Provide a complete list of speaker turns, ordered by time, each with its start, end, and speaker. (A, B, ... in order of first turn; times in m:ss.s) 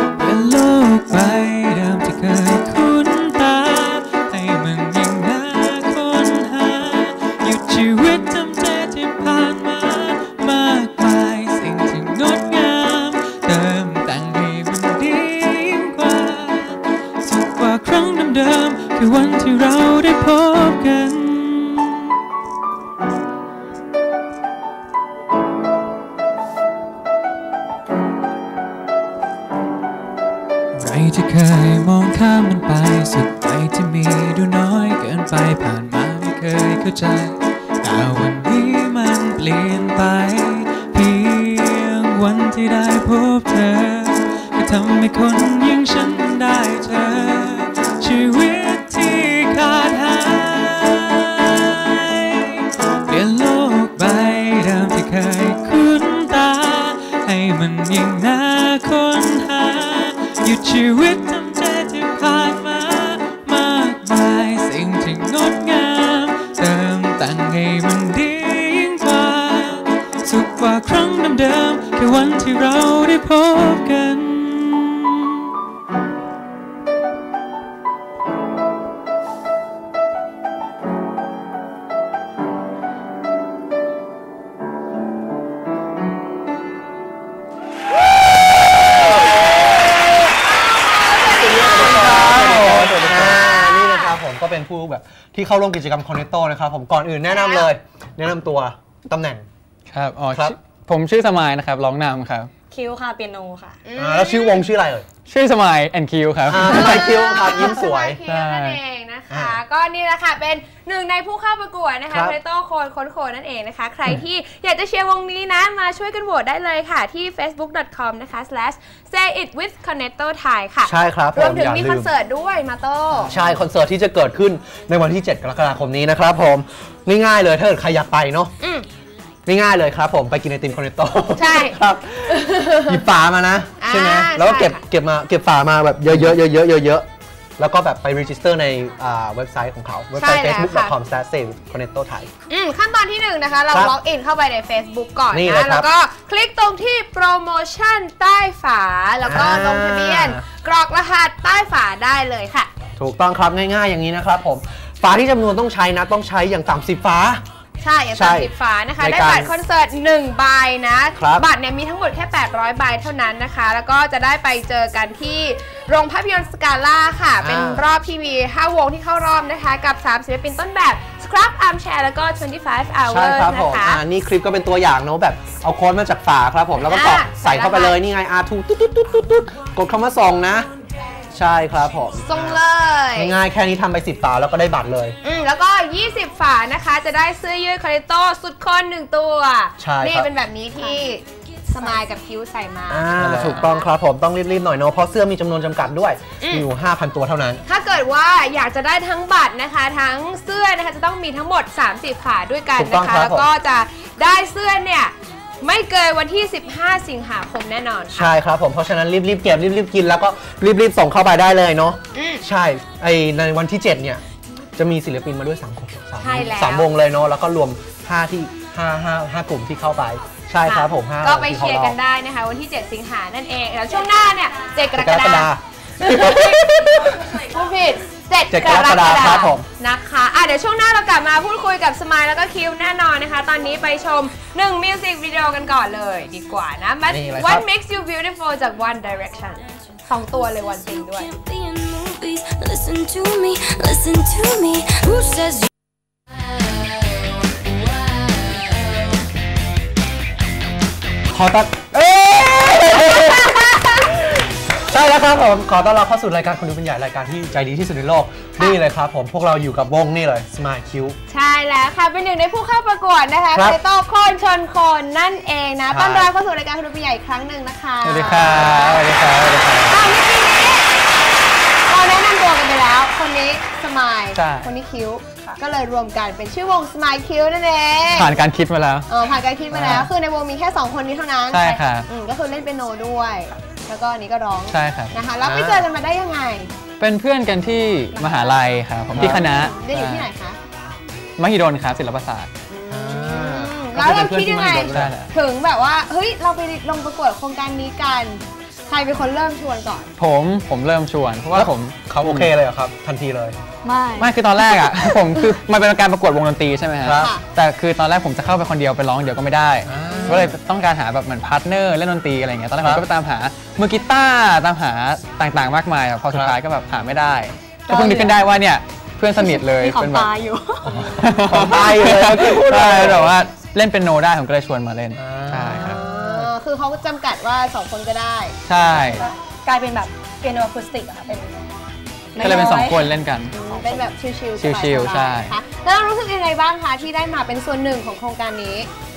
0:00.2-0:22.0 A
0:30.8-1:15.3 A
1:29.7-1:34.2 B
1:31.4-1:39.4 C
1:31.7-1:33.4 D
1:37.3-1:37.7 B
1:39.9-1:42.5 D
1:42.7-1:43.8 E
1:43.8-1:44.7 B
1:44.0-1:45.1 C
1:45.2-1:47.1 D
1:46.5-1:48.2 C
1:46.6-2:03.3 B
1:48.2-1:48.8 D
1:49.3-1:49.6 C
1:52.1-1:52.4 C
2:00.8-2:02.1 C
2:03.1-2:03.6 D
2:03.3-2:08.5 C
2:08.6-2:08.9 B
2:09.5-2:12.3 C
2:11.3-2:13.0 B
2:12.9-2:17.1 C
2:13.8-2:14.8 B
2:17.6-2:22.3 C
2:20.2-2:20.9 B
2:22.5-2:32.7 B
2:25.3-2:25.9 C
2:29.2-2:30.4 C
2:33.0-2:37.4 C
2:37.8-2:54.0 B
2:38.1-2:39.5 C
2:41.2-2:41.5 C
2:47.4-2:47.8 C
2:53.1-3:00.7 C
2:56.8-2:58.0 B
3:01.3-3:02.6 C
3:02.2-3:03.3 B
3:03.2-3:05.2 C
3:05.2-3:13.9 B
3:09.8-3:10.3 C
3:12.9-3:17.6 C
3:13.2-3:13.6 D
3:16.4-3:16.7 B
3:17.7-3:28.3 B
3:22.8-3:23.5 C
3:28.1-3:34.2 C
3:32.1-3:32.4 B
3:34.8-3:42.0 C
3:36.2-3:36.9 B
3:40.6-3:46.7 B
3:44.9-3:47.2 C
3:47.3-4:01.4 B
3:48.5-3:49.6 C
3:57.1-3:57.6 C
4:01.3-4:05.7 F
4:11.3-4:13.6 C
4:14.8-4:21.2 C
4:21.3-4:29.1 B
4:23.5-4:23.8 C
4:25.9-4:26.3 C
4:28.0-4:30.2 D
4:28.2-4:28.8 C
4:29.9-4:31.1 B
4:31.9-4:38.4 B
4:34.4-4:34.7 D
4:38.1-4:39.1 D
4:39.1-4:46.7 B
4:39.8-4:40.1 D
4:39.8-4:40.0 C
4:41.5-4:42.1 D
4:44.7-4:45.2 D
4:45.4-4:45.9 C
4:47.0-4:50.3 D
4:48.1-4:48.8 E
4:49.1-4:49.4 C
4:49.2-4:50.6 B
4:51.4-4:52.5 D
4:52.7-5:00.1 B
4:52.9-4:55.1 C
4:54.9-4:55.3 D
5:00.2-5:02.5 D
5:01.5-5:03.6 C
5:03.8-5:04.4 E
5:04.2-5:20.3 D
5:07.0-5:07.3 C
5:07.2-5:07.4 B
5:09.9-5:10.5 C
5:12.8-5:13.0 C
5:17.8-5:18.5 E
5:19.3-5:21.1 E
5:20.8-5:23.4 C
5:21.2-5:26.0 D
5:25.2-5:26.5 C
5:25.8-5:28.6 B
5:28.6-5:29.2 D
5:28.9-5:31.7 E
5:32.3-5:34.1 E
5:32.4-5:33.6 D
5:33.6-5:38.9 B
5:34.6-5:35.6 D